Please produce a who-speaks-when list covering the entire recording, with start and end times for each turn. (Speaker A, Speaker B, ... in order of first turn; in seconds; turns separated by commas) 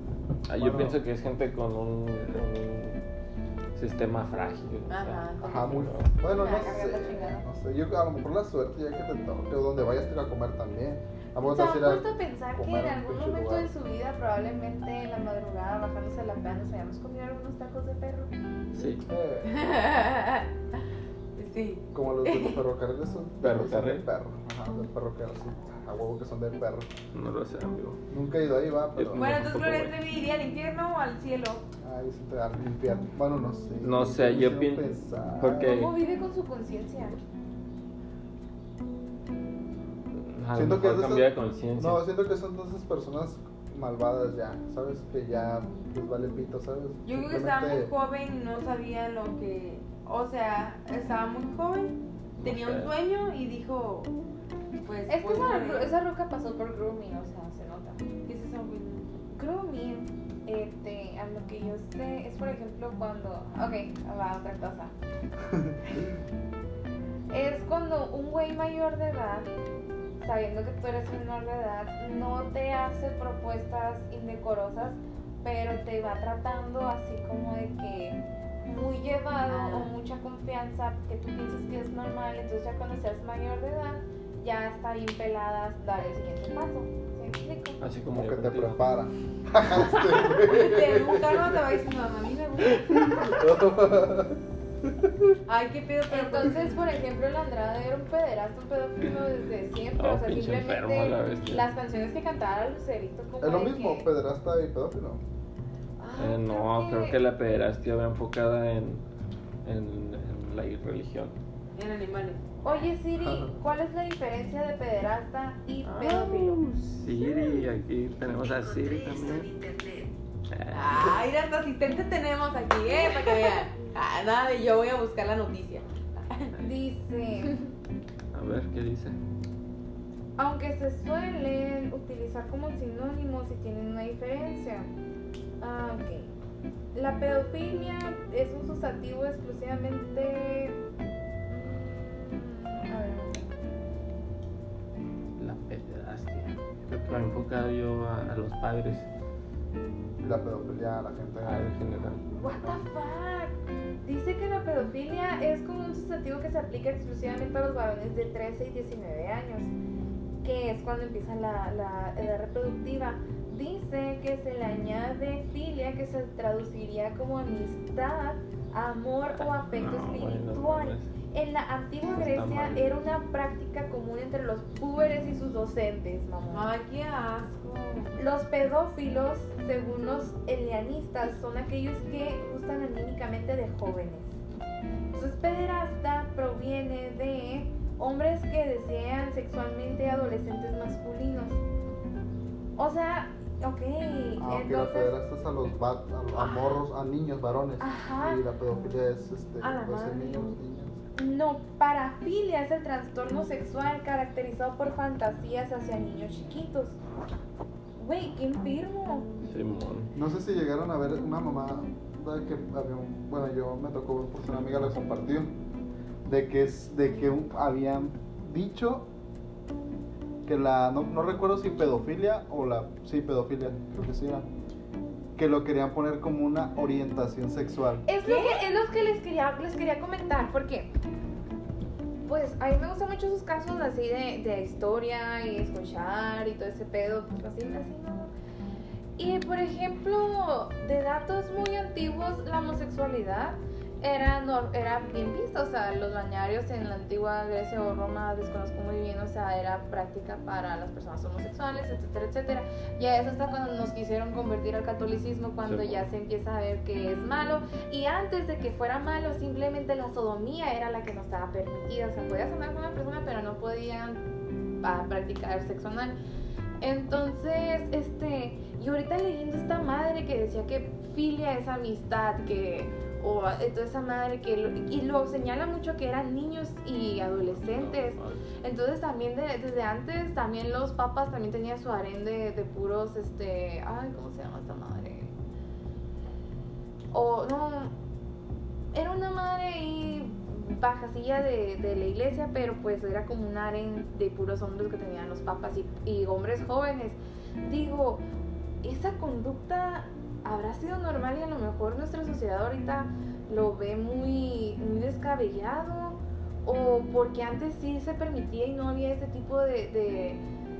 Speaker A: 0.5-3.0, Speaker B: 0.6-1.0, Speaker A: 3.7-6.1, Speaker C: 4.9-5.8, Speaker B: 5.4-13.7, Speaker D: 6.2-7.4, Speaker D: 11.4-18.3, Speaker A: 18.7-19.0, Speaker B: 19.0-19.6, Speaker C: 19.4-20.5, Speaker C: 21.4-22.6, Speaker B: 21.9-26.9, Speaker A: 23.4-24.0, Speaker A: 27.1-28.0, Speaker B: 28.1-29.5, Speaker A: 28.9-29.9, Speaker C: 29.1-31.6, Speaker B: 31.8-35.7, Speaker A: 33.8-34.9, Speaker A: 35.4-36.0, Speaker D: 35.5-37.2, Speaker A: 40.2-42.0, Speaker B: 40.5-47.9, Speaker C: 47.0-54.1, Speaker A: 52.4-52.9, Speaker C: 54.8-55.9, Speaker D: 55.1-58.0, Speaker C: 58.2-59.1, Speaker D: 59.3-64.9, Speaker D: 67.3-69.5, Speaker D: 70.2-87.8, Speaker C: 79.5-79.9, Speaker A: 87.8-88.8, Speaker B: 88.1-91.6, Speaker C: 90.2-93.4, Speaker B: 92.7-95.3, Speaker C: 95.5-96.7, Speaker D: 96.1-104.1, Speaker A: 100.0-101.7, Speaker B: 103.4-105.2, Speaker D: 106.0-107.2, Speaker A: 106.2-109.0, Speaker A: 109.6-111.3, Speaker C: 111.8-112.4, Speaker D: 112.6-116.6, Speaker B: 113.2-113.5, Speaker A: 115.8-119.5, Speaker D: 117.1-117.7, Speaker D: 118.3-120.1, Speaker A: 120.5-121.2, Speaker C: 120.7-126.5, Speaker D: 126.6-127.6, Speaker A: 128.3-129.2, Speaker D: 130.4-134.9, Speaker D: 135.6-136.3, Speaker D: 136.9-140.8, Speaker D: 141.5-143.5, Speaker A: 145.4-149.1, Speaker B: 146.9-147.2, Speaker B: 150.2-151.7, Speaker A: 151.4-152.2, Speaker D: 152.3-159.7, Speaker D: 160.4-176.7, Speaker A: 169.3-171.1, Speaker A: 172.1-172.8, Speaker C: 176.5-178.1, Speaker D: 178.2-184.4, Speaker D: 185.1-191.6, Speaker D: 192.8-195.1, Speaker B: 194.4-201.0, Speaker D: 196.3-196.8, Speaker D: 197.8-198.4, Speaker C: 199.6-200.5, Speaker D: 201.1-206.9, Speaker D: 208.0-209.3, Speaker A: 209.4-210.1, Speaker B: 210.1-215.6, Speaker A: 214.5-215.0, Speaker B: 216.2-219.1, Speaker B: 220.4-224.4, Speaker B: 225.3-228.0, Speaker D: 228.1-230.9, Speaker C: 228.2-228.7, Speaker D: 232.2-238.3, Speaker D: 239.2-264.2, Speaker A: 255.6-256.1, Speaker D: 264.8-266.1, Speaker D: 266.8-285.3, Speaker A: 277.5-278.4, Speaker D: 287.1-287.9, Speaker D: 288.9-298.2, Speaker D: 298.8-310.4